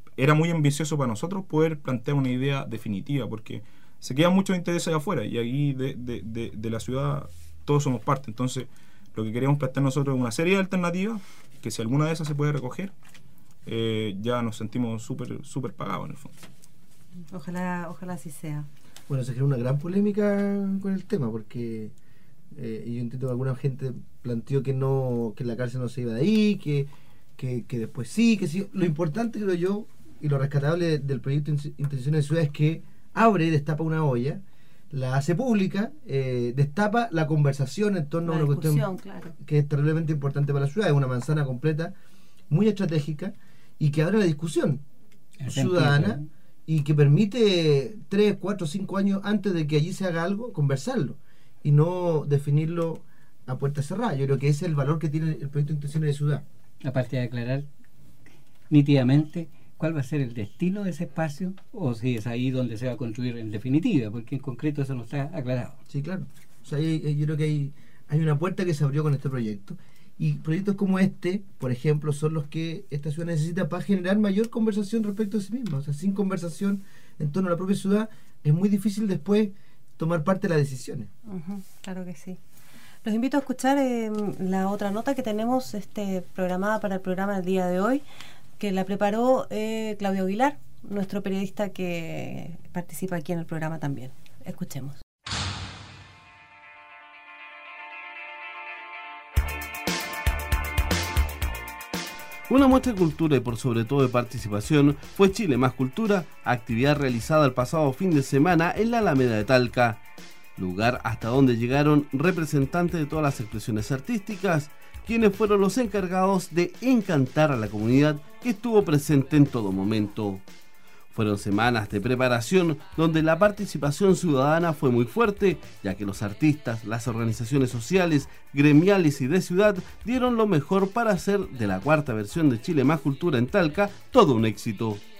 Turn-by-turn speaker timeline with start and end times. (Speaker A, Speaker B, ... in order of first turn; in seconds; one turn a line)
Speaker A: 0.2-12.9
Speaker A: 13.7-16.3
Speaker B: 17.3-18.7
Speaker C: 19.1-21.9
Speaker C: 22.5-38.9
Speaker B: 38.2-39.3
Speaker C: 39.4-41.9
Speaker C: 42.5-44.8
Speaker D: 45.4-46.3
Speaker C: 45.5-56.4
Speaker D: 56.8-57.7
Speaker D: 58.7-65.8
Speaker C: 65.9-81.1
Speaker B: 81.3-82.4
Speaker B: 83.0-88.0
Speaker B: 88.6-95.0
Speaker E: 102.5-110.0
Speaker E: 110.6-120.4
Speaker E: 121.1-135.0